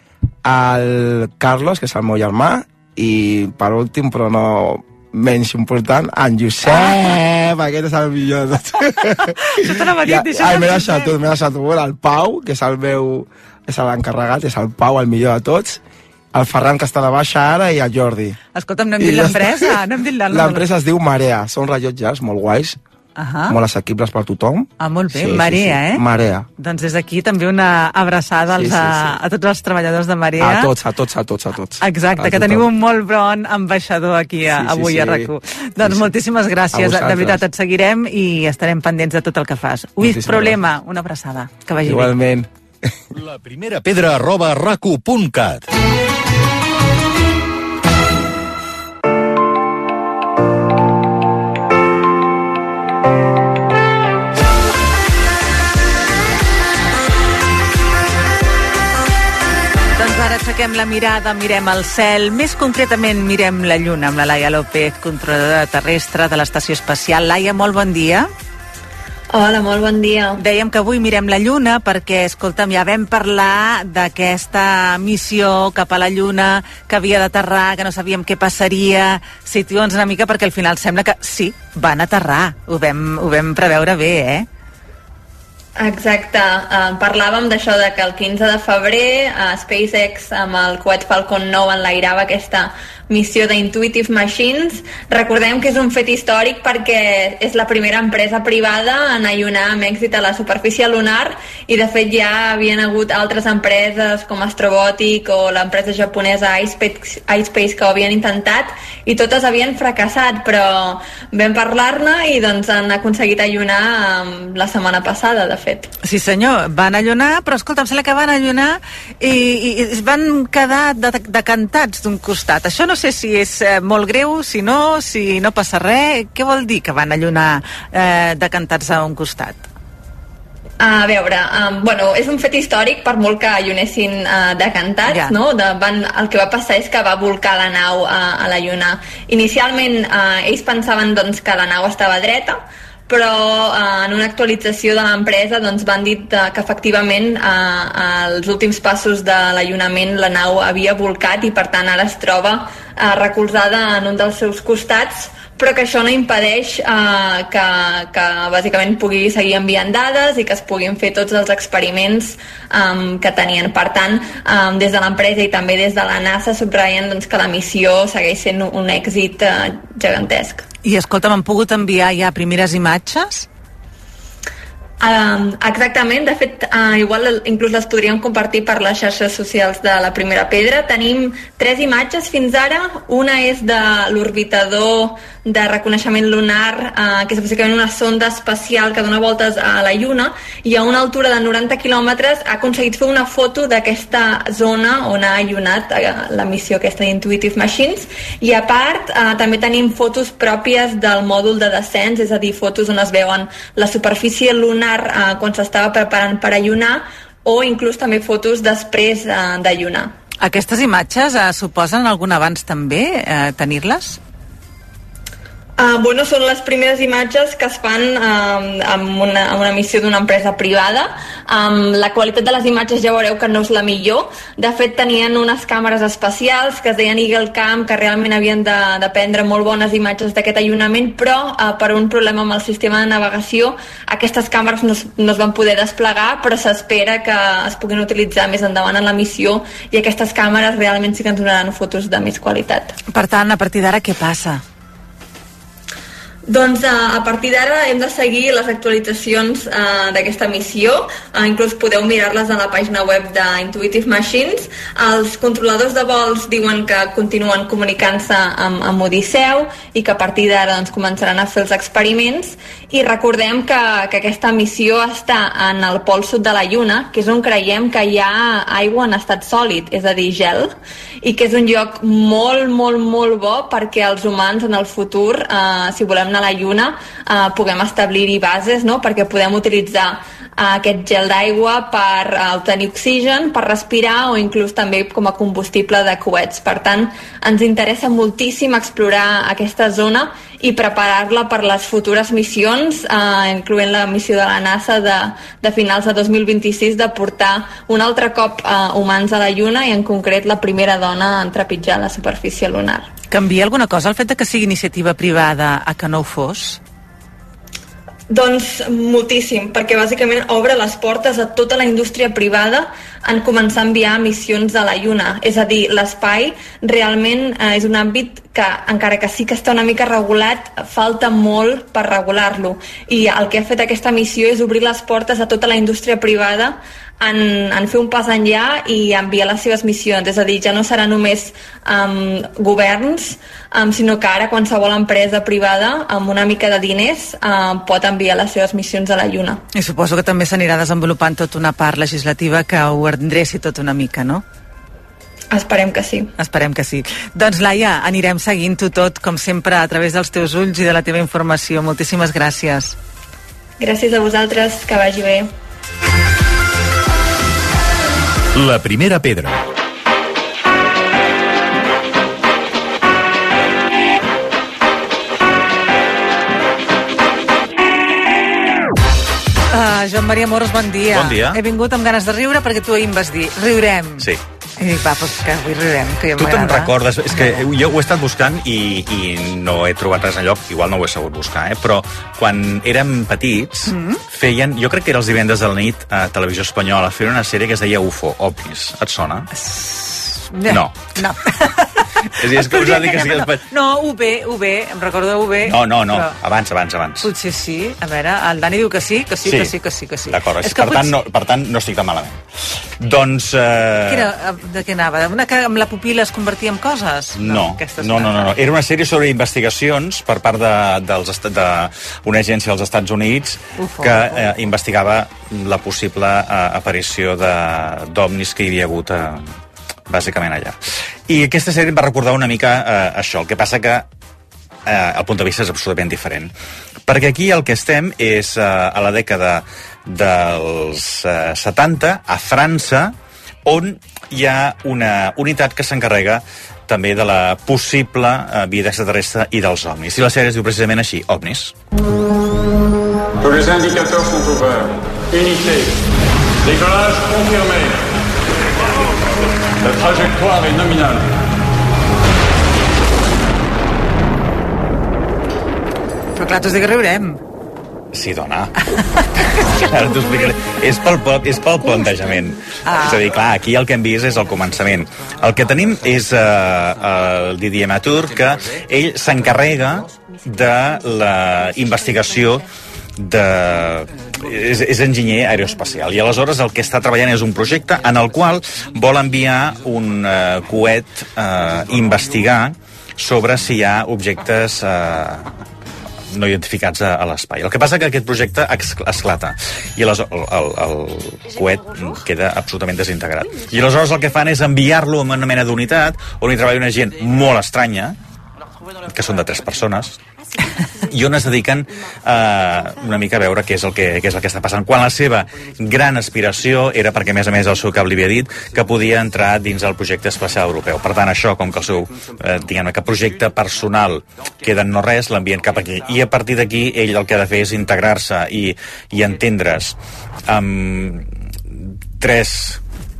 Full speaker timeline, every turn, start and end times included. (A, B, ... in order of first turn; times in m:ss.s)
0:00.4-0:15.8 A
0:06.6-0:07.0 B
0:09.2-0:11.1 B
0:16.3-0:18.4 A
0:18.5-0:20.6 B
0:19.0-0:19.7 A
0:20.3-0:22.8 A
0:23.2-0:23.6 B
0:23.5-0:26.4 A
0:24.8-0:26.0 B
0:26.6-0:30.7 B
0:28.6-0:29.1 A
0:30.4-0:32.7 A
0:31.8-0:42.1 B
0:34.5-0:36.1 A
0:36.7-0:37.4 A
0:40.0-0:40.6 A
0:41.8-0:42.5 A
0:43.1-0:45.6 C
1:00.0-1:08.3 B
1:09.3-1:10.4 D
1:10.4-1:24.5 B
1:25.8-1:55.9 D
1:56.0-2:09.7 B
2:10.8-2:50.6 D
2:15.1-2:15.4 B
2:50.8-2:53.5 B
2:55.0-3:30.1 D
3:30.4-3:34.2 B
3:35.8-4:03.0 D
4:03.1-4:04.6 B
4:06.5-5:03.1 D
5:03.3-5:06.8 B
5:08.3-5:39.6 D
5:39.7-5:44.4 B
5:45.5-5:46.3 D
5:46.4-5:53.0 B
5:53.8-5:55.5 D
5:58.5-5:59.6 C
6:09.7-6:17.7 B
6:11.1-6:11.6 E
6:16.4-6:29.5 E
6:23.8-6:24.2 B
6:29.5-6:36.4 B
6:30.6-6:31.0 E
6:32.3-6:33.6 E
6:35.6-6:37.3 E
6:37.2-6:41.2 B
6:39.4-6:42.4 E
6:43.0-6:44.3 E
6:44.0-6:48.5 B
6:47.4-6:59.5 E
6:53.8-6:54.6 B
7:00.1-7:04.0 E
7:04.8-7:06.5 E
7:07.1-7:13.1 E
7:13.6-7:21.7 E
7:23.4-7:25.9 F
7:26.7-7:27.9 F
7:29.9-7:31.2 F
7:36.4-7:37.4 B
7:38.1-8:05.5 E
7:42.8-7:43.2 B
8:06.3-8:18.2 E
8:19.0-8:20.2 E
8:21.0-8:42.8 E